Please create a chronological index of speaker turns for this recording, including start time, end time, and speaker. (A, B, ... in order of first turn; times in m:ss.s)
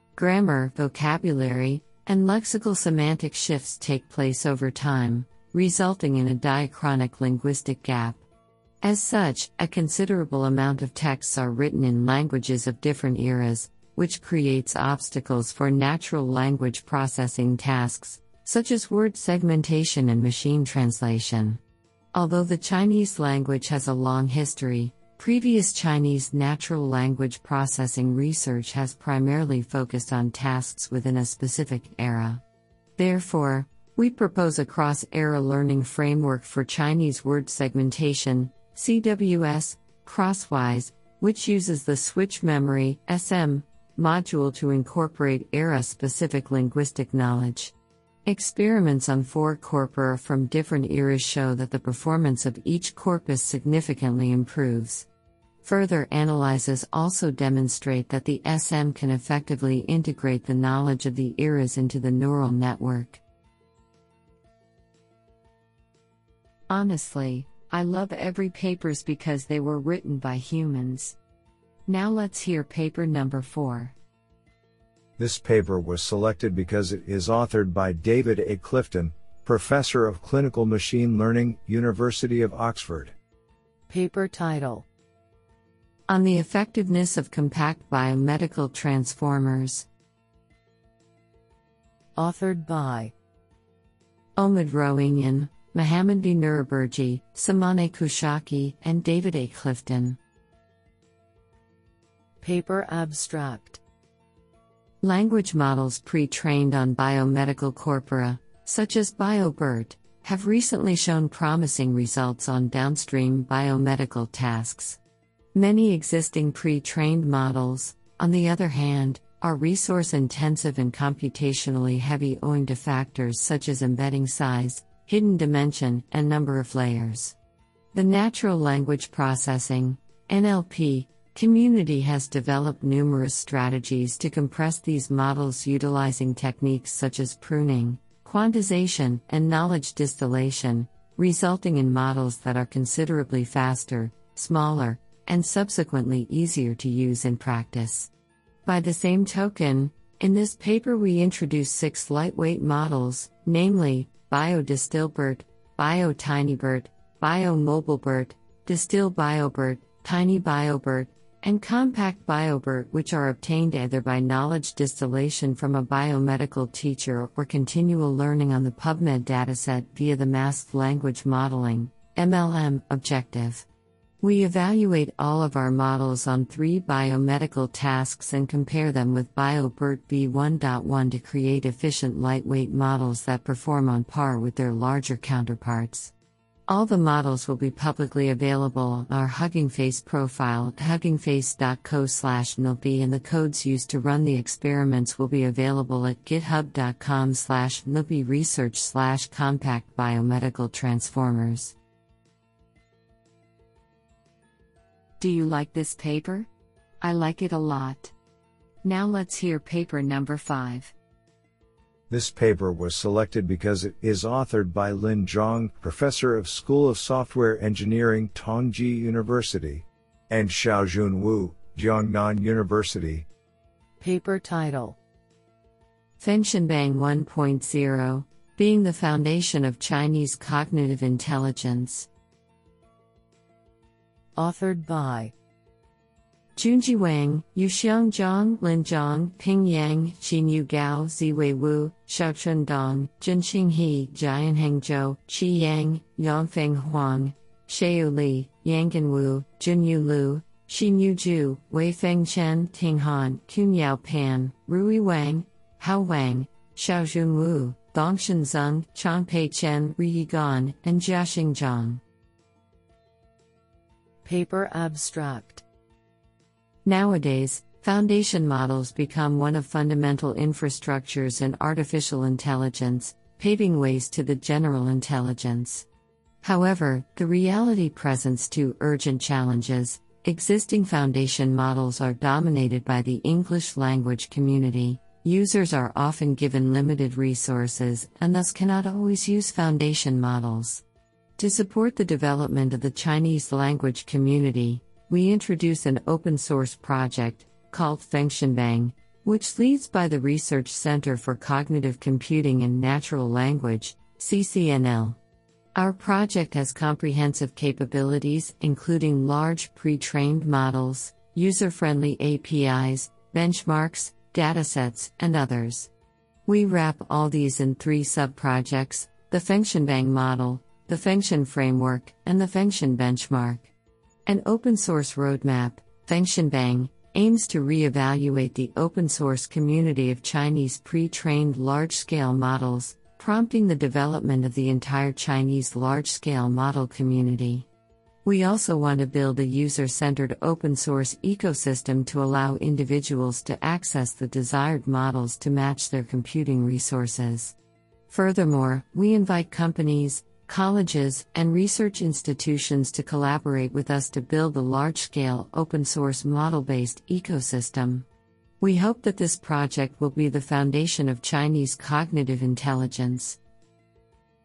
0:00.1-0:08.2 A
0:08.8-0:21.6 A
0:22.1-0:32.4 A
0:33.0-0:47.7 A
0:48.2-0:55.1 A
0:55.6-1:03.2 A
1:06.7-1:11.2 A
1:11.8-1:14.0 A
1:15.2-1:23.1 B
1:23.9-1:24.8 C
1:26.1-1:29.9 A
1:32.2-1:33.1 C
1:34.4-1:40.2 A
1:42.4-1:43.8 C
1:45.0-1:55.0 A
1:55.5-2:07.3 A
2:07.9-2:28.1 A
2:28.6-2:53.6 A
2:54.2-3:06.1 A
3:06.7-3:21.7 A
3:25.2-3:26.5 A
3:27.0-3:28.1 A
3:28.8-3:30.9 A
3:32.1-3:43.3 B
3:44.0-3:45.0 C
3:46.2-3:52.1 A
3:54.4-3:55.3 C
3:56.6-4:22.0 A
4:24.2-4:25.6 C
4:26.8-4:35.8 A
4:36.4-4:50.8 A
4:51.4-5:05.2 A
5:05.7-5:15.9 A
5:16.4-5:23.7 A
5:24.2-5:37.7 A
5:38.2-5:47.5 A
5:48.1-5:58.0 A
5:58.6-6:03.4 A